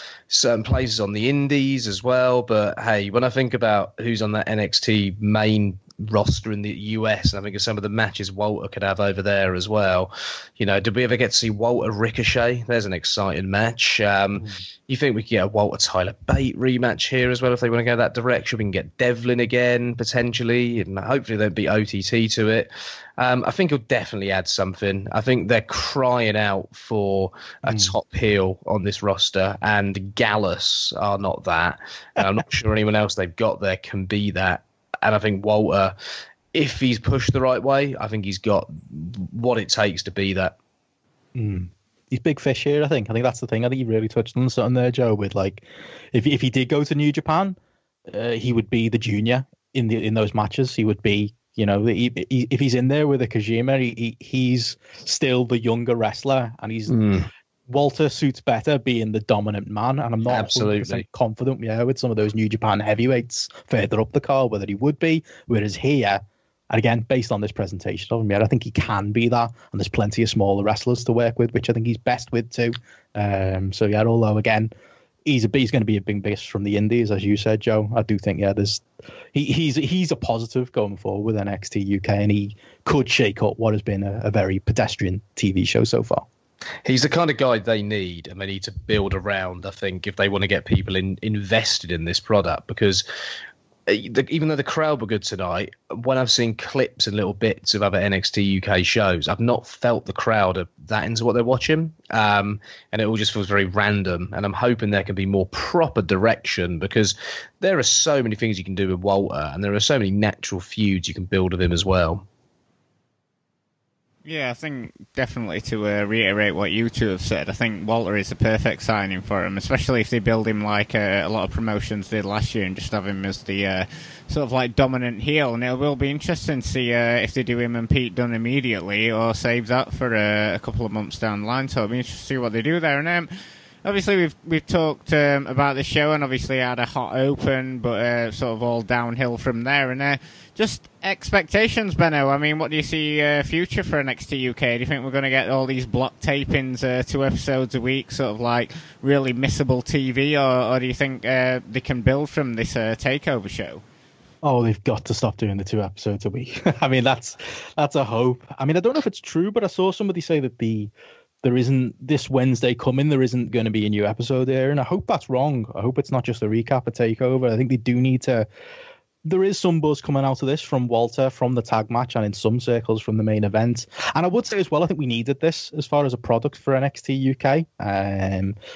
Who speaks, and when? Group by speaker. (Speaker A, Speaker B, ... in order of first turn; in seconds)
Speaker A: 0.3-36.0, 36.5-40.5, 56.9-57.3, 60.2-61.0, 86.8-93.0, 93.9-112.2
Speaker B: 27.7-27.9, 41.4-47.6, 48.1-57.1, 57.7-74.7, 75.2-86.3, 154.4-160.9, 161.4-168.5, 169.2-178.6
Speaker C: 114.2-133.3, 133.8-153.8